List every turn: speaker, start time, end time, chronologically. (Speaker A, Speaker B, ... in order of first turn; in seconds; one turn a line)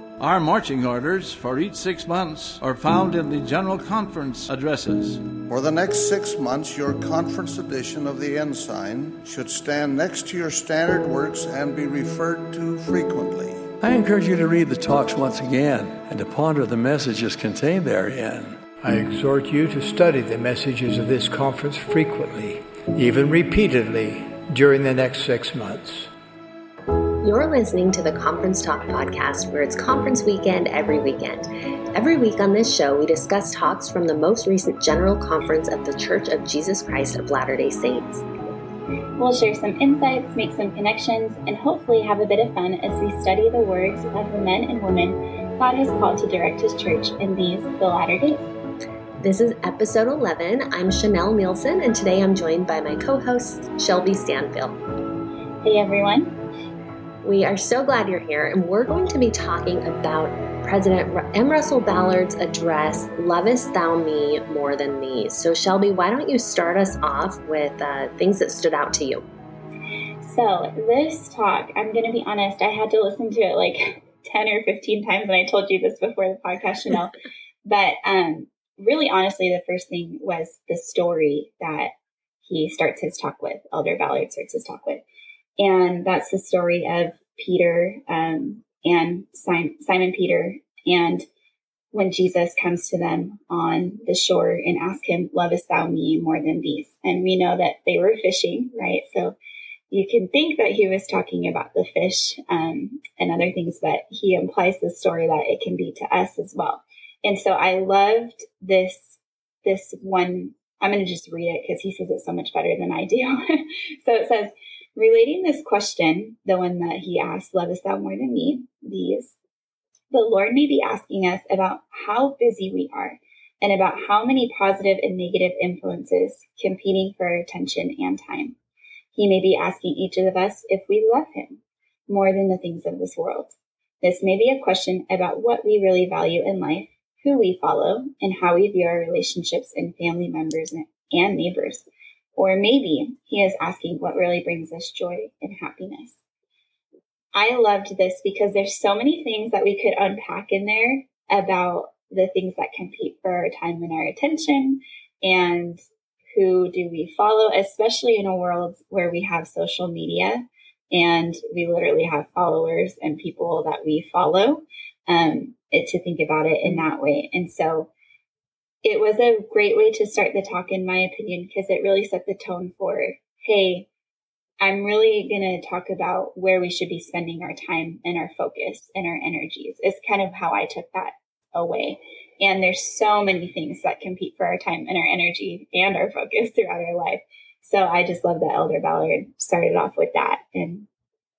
Speaker A: 0.2-5.2
Speaker B: 5.5-13.7
Speaker C: 13.8-18.6
Speaker D: 18.8-26.1
Speaker E: 27.2-38.2
Speaker F: 39.2-48.5
Speaker E: 49.2-54.8
Speaker F: 55.6-56.4
Speaker E: 57.2-69.2
Speaker F: 70.2-77.1
Speaker F: 77.7-81.9
Speaker F: 82.4-85.0
Speaker F: 85.6-91.3
Speaker F: 91.9-99.4
Speaker F: 99.9-119.3
Speaker F: 120.1-128.6
Speaker F: 129.1-146.2
Speaker F: 147.3-167.9
Speaker F: 168.8-173.9
Speaker F: 174.6-190.9